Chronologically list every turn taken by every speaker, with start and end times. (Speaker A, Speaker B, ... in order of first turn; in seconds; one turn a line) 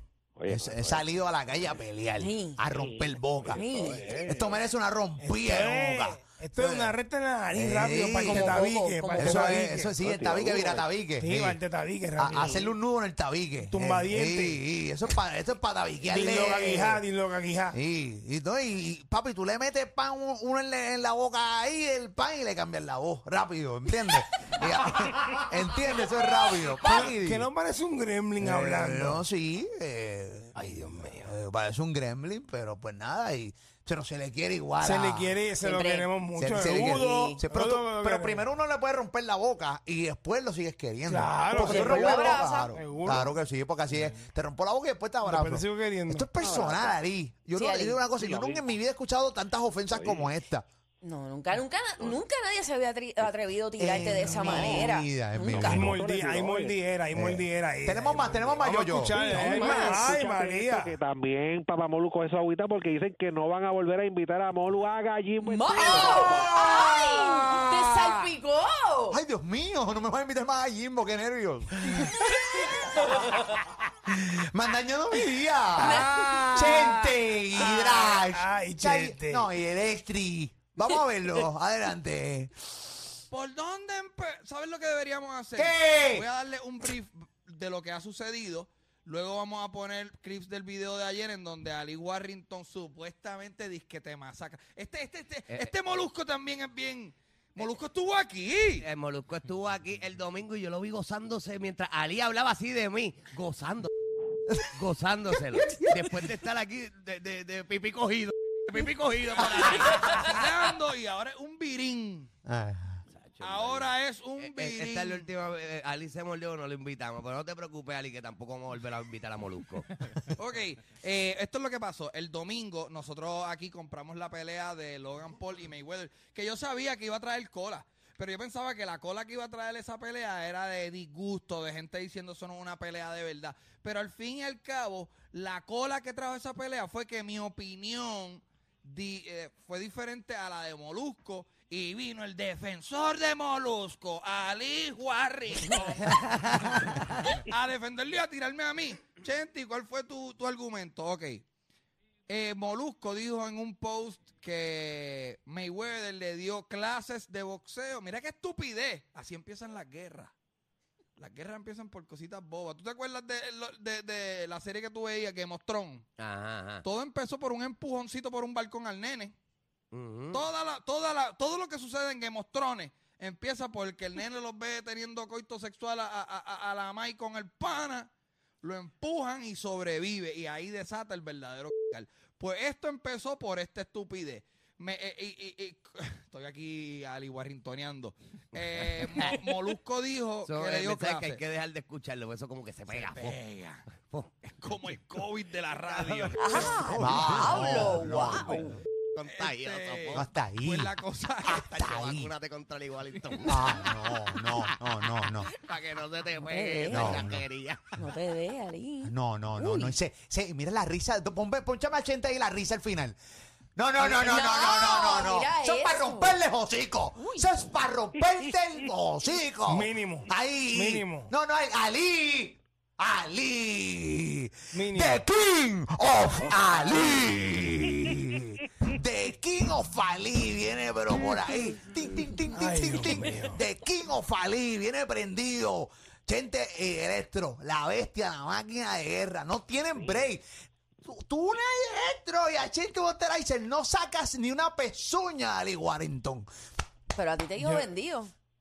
Speaker A: 0.4-1.0
Speaker B: 0.5-3.6
Speaker C: 2.2-2.6
Speaker A: 2.8-4.4
Speaker C: 3.5-4.1
Speaker B: 4.2-7.0
Speaker D: 5.2-9.9
Speaker B: 7.5-11.6
Speaker C: 8.2-9.6
Speaker A: 10.0-10.8
Speaker D: 11.2-12.8
Speaker B: 12.2-17.0
Speaker D: 13.7-14.6
Speaker D: 16.0-17.8
Speaker B: 17.7-27.5
Speaker D: 26.8-29.2
Speaker B: 28.4-35.3
Speaker D: 30.5-31.3
Speaker D: 34.8-38.4
Speaker C: 35.6-36.1
Speaker B: 36.4-50.6
Speaker C: 36.8-37.4
Speaker D: 41.1-43.3
Speaker C: 41.6-42.7
Speaker D: 43.9-44.2
Speaker D: 45.2-46.3
Speaker C: 47.5-48.0
Speaker A: 48.2-48.6
Speaker A: 49.9-50.3
Speaker C: 51.0-55.8
Speaker B: 53.8-56.0
Speaker D: 54.5-54.8
Speaker D: 55.6-61.0
Speaker A: 55.8-56.8
Speaker B: 57.1-59.1
Speaker A: 59.1-66.5
Speaker C: 59.4-60.0
Speaker C: 65.4-69.2
Speaker B: 65.8-68.3
Speaker B: 69.1-82.8
Speaker D: 75.8-79.5
Speaker C: 75.8-76.7
Speaker E: 83.3-98.8
Speaker B: 85.5-86.2
Speaker F: 98.8-103.9
Speaker F: 104.7-110.3
Speaker B: 105.6-105.9
Speaker E: 109.4-112.3
Speaker B: 112.5-113.0
Speaker F: 113.1-119.9
Speaker E: 113.4-115.3
Speaker E: 120.3-146.2
Speaker F: 146.0-147.3
Speaker E: 147.5-151.4
Speaker E: 152.3-160.3
Speaker E: 161.2-166.1
Speaker F: 166.2-166.8
Speaker E: 166.8-169.3
Speaker F: 169.9-170.4
Speaker E: 170.3-178.1
Speaker E: 178.6-191.4
Speaker F: 190.4-193.4
Speaker E: 192.9-193.8
Speaker F: 194.1-194.7
Speaker E: 194.6-196.8
Speaker F: 195.9-197.0
Speaker C: 196.4-198.8
Speaker B: 196.9-198.8
Speaker F: 199.1-200.3
Speaker E: 199.3-201.6
Speaker B: 200.1-200.9
Speaker B: 201.5-202.3
Speaker F: 201.5-203.7
Speaker B: 203.4-205.5
Speaker F: 205.5-207.9
Speaker C: 206.4-207.2
Speaker B: 206.9-207.4
Speaker C: 207.9-209.9
Speaker B: 209.0-213.2
Speaker B: 213.8-240.4
Speaker C: 214.0-216.4
Speaker D: 219.7-221.3
Speaker D: 224.7-225.2
Speaker D: 232.5-233.6
Speaker B: 241.0-246.5
Speaker C: 247.1-248.3
Speaker D: 247.6-247.8